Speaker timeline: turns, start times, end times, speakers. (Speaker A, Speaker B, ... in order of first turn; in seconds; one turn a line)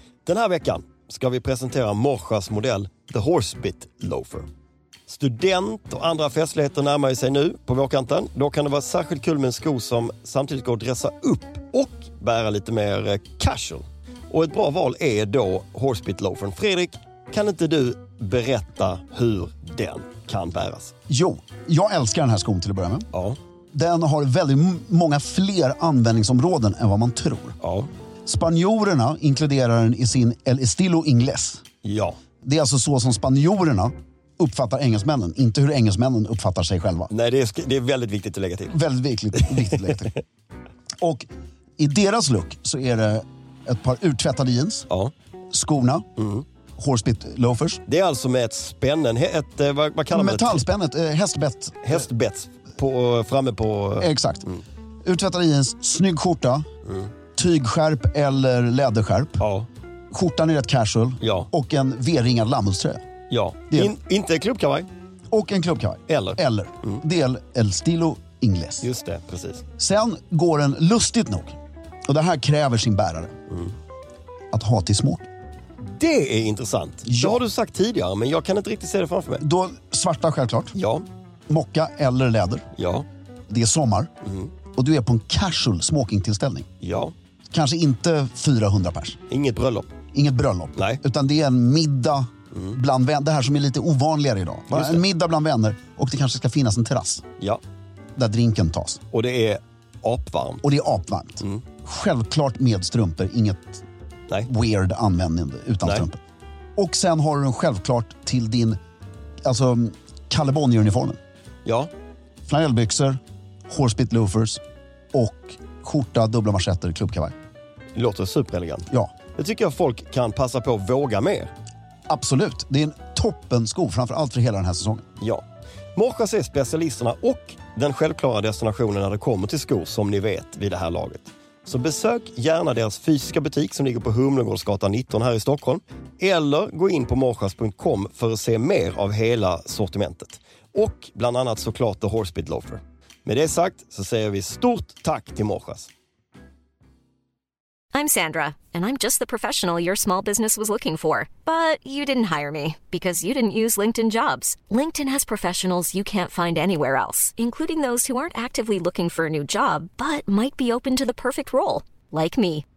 Speaker A: 0.2-4.5
Speaker A: 5.1-20.9
Speaker B: 21.1-23.1
Speaker A: 23.1-23.4
Speaker B: 23.7-27.6
Speaker A: 27.6-27.9
Speaker B: 28.2-31.6
Speaker A: 31.8-32.1
Speaker B: 32.4-37.1
Speaker A: 37.1-38.8
Speaker B: 38.7-40.2
Speaker B: 41.0-41.3
Speaker B: 41.8-44.9
Speaker B: 45.5-46.1
Speaker A: 46.2-46.4
Speaker B: 46.8-47.8
Speaker A: 47.9-50.6
Speaker B: 50.1-52.0
Speaker A: 51.8-54.6
Speaker B: 54.0-54.5
Speaker B: 55.0-56.6
Speaker B: 57.3-59.4
Speaker A: 59.4-59.7
Speaker B: 60.1-63.0
Speaker A: 61.2-61.5
Speaker A: 63.3-64.9
Speaker B: 65.3-68.9
Speaker A: 66.1-67.0
Speaker A: 68.8-69.6
Speaker B: 69.8-73.3
Speaker B: 74.5-75.2
Speaker A: 75.8-79.4
Speaker B: 77.0-77.4
Speaker B: 79.4-80.7
Speaker A: 80.7-81.0
Speaker B: 81.5-82.7
Speaker A: 82.8-83.0
Speaker B: 83.5-84.1
Speaker A: 84.2-84.5
Speaker B: 84.8-86.7
Speaker A: 86.8-87.1
Speaker B: 87.5-89.2
Speaker A: 89.3-89.9
Speaker B: 90.1-97.2
Speaker A: 90.8-91.0
Speaker A: 94.7-95.0
Speaker B: 98.2-99.0
Speaker A: 99.1-100.6
Speaker B: 100.6-103.8
Speaker B: 104.5-106.2
Speaker B: 106.8-108.8
Speaker B: 109.4-111.2
Speaker B: 112.5-114.6
Speaker B: 115.1-117.3
Speaker A: 117.9-121.5
Speaker B: 122.1-125.0
Speaker A: 126.0-145.9
Speaker C: 147.9-162.6